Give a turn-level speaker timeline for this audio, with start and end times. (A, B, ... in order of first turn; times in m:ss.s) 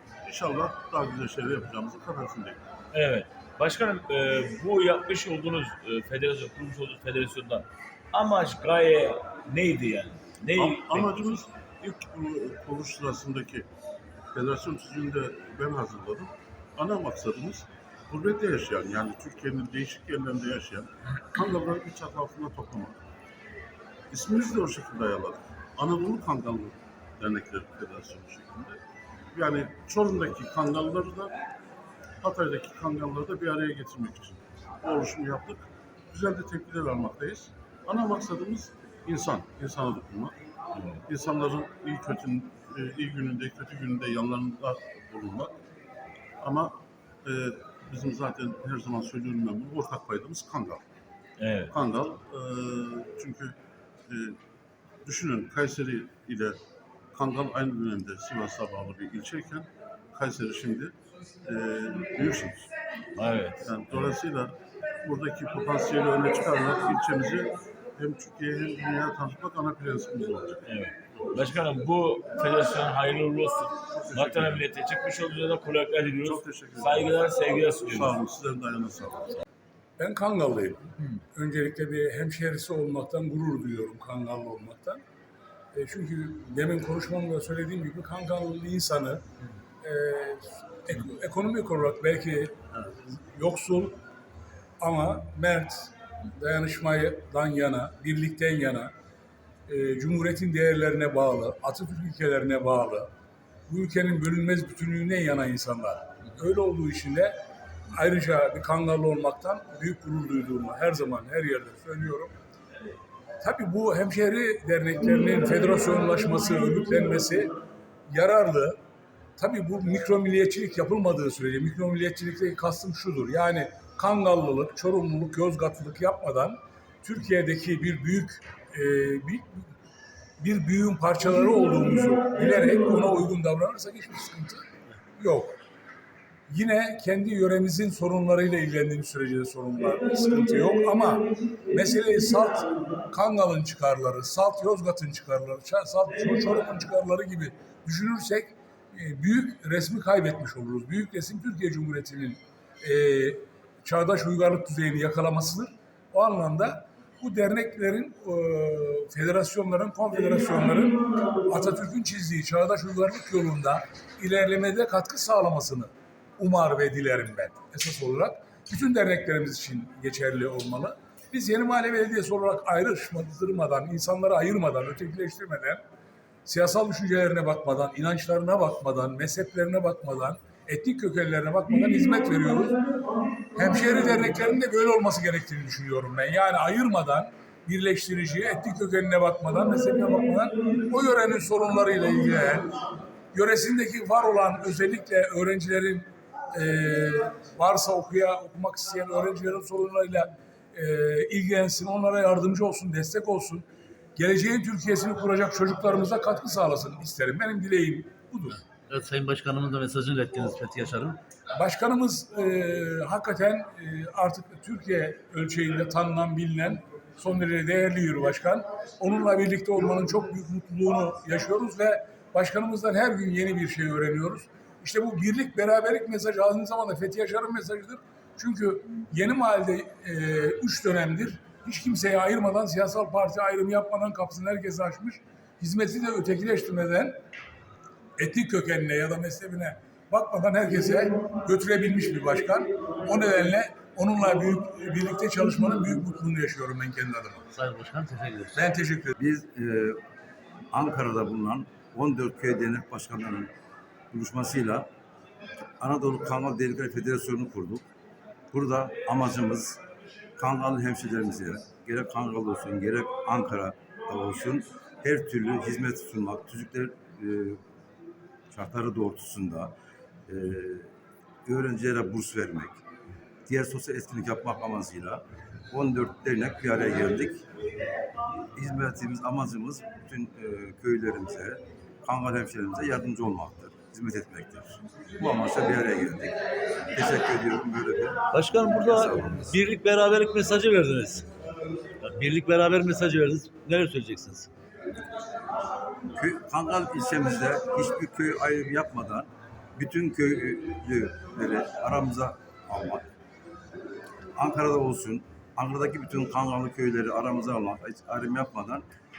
0:00.3-0:02.6 A
0:02.9-0:11.3 B
0:10.6-0:13.7 A
0:14.3-0:23.0 A
0:24.1-0:28.8 A
0:29.3-0:31.3 A
0:32.2-0:40.3 A
0:41.0-0:45.6 A
0:46.4-0:50.8 A
0:51.4-0:51.7 B
0:51.7-0:53.5 A
0:54.1-0:54.4 A
0:55.0-0:56.6 A
0:57.1-1:00.9 A
1:01.4-1:02.7 A
1:03.2-1:03.6 B
1:03.6-1:10.6 A
1:10.6-1:18.2 B
1:13.9-1:14.7 A
1:16.2-1:17.2 A
1:17.8-1:19.4 A
1:20.0-1:25.0 C
1:25.7-1:29.2 C
1:29.8-1:34.0 C
1:34.8-1:38.9 C
1:39.7-1:43.1 C
1:43.7-1:47.3 C
1:47.9-1:52.3 C
1:53.4-1:57.5 C
1:58.1-1:58.8 C
1:59.4-2:09.7 C
2:10.4-2:14.6 C
2:15.2-2:15.6 C
2:16.5-2:55.8 C
2:56.4-3:02.8 C
3:03.5-3:12.8 C
3:13.3-3:28.6 C
3:28.9-3:31.2 D
3:31.5-3:57.2 C
3:58.2-4:07.4 C
4:07.5-4:08.5 D
4:08.5-4:09.2 C
4:09.2-4:10.0 E
4:10.7-4:13.5 E
4:14.1-4:14.9 E
4:15.8-4:17.8 E
4:18.5-4:19.8 E
4:20.4-4:27.6 E
4:28.5-4:29.7 E
4:30.3-4:30.9 E
4:31.4-4:32.8 E
4:33.4-4:37.4 E
4:38.6-4:46.4 E
4:46.9-4:48.2 E
4:48.3-4:51.2 D
4:48.8-4:49.5 E
4:52.0-4:54.5 D
4:56.1-5:03.0 E
5:04.4-5:08.8 E